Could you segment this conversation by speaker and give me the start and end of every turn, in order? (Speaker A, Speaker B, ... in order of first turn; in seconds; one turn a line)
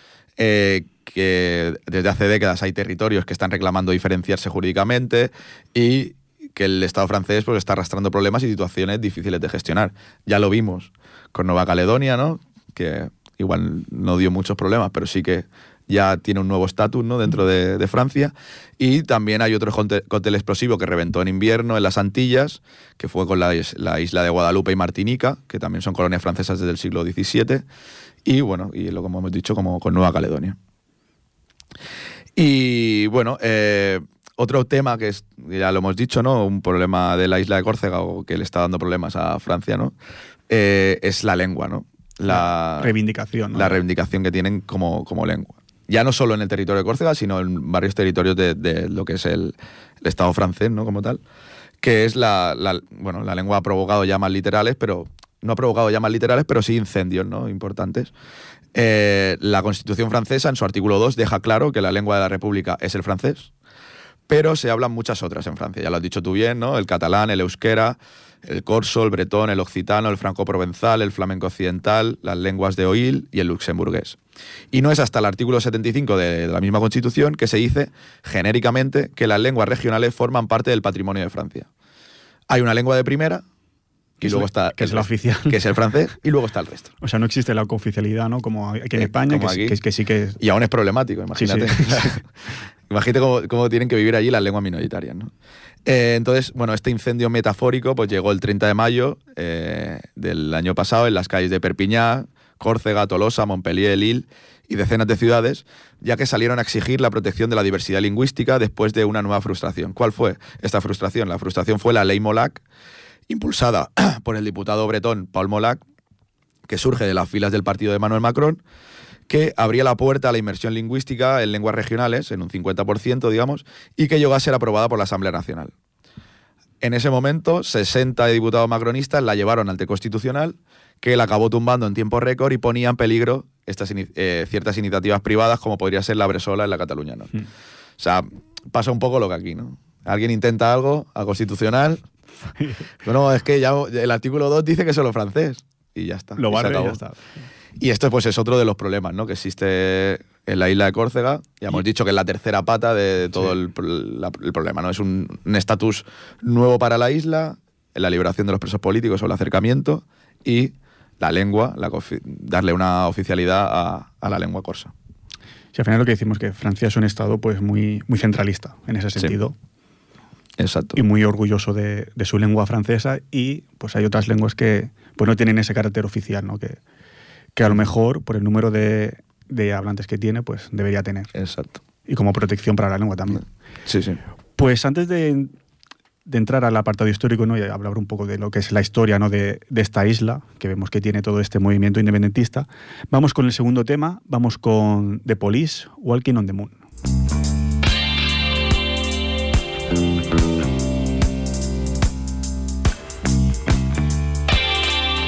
Speaker A: 0.4-27.6
Speaker A: 28.2-30.6
Speaker A: 32.4-39.9
Speaker A: 40.5-42.9
Speaker B: 42.3-43.8
Speaker A: 43.5-51.2
Speaker A: 51.8-58.1
Speaker A: 58.7-63.5
Speaker A: 64.3-74.2
Speaker A: 74.7-81.7
Speaker A: 82.5-83.4
Speaker B: 84.2-85.6
Speaker A: 84.2-86.9
Speaker B: 87.0-90.4
Speaker A: 88.9-89.8
Speaker A: 90.4-92.2
Speaker B: 91.3-92.2
Speaker A: 92.9-95.3
Speaker A: 95.8-112.6
Speaker A: 113.3-115.8
Speaker A: 116.7-118.6
Speaker A: 119.3-125.7
Speaker A: 126.8-137.3
Speaker A: 138.0-142.0
Speaker B: 142.6-142.9
Speaker A: 143.0-147.0
Speaker B: 146.4-147.2
Speaker A: 147.8-164.9
Speaker B: 165.7-169.6
Speaker A: 170.6-171.0
Speaker B: 170.9-176.8
Speaker B: 177.6-181.3
Speaker A: 181.3-181.8
Speaker B: 182.1-183.4
Speaker A: 183.9-184.2
Speaker B: 184.6-185.5
Speaker B: 186.3-196.8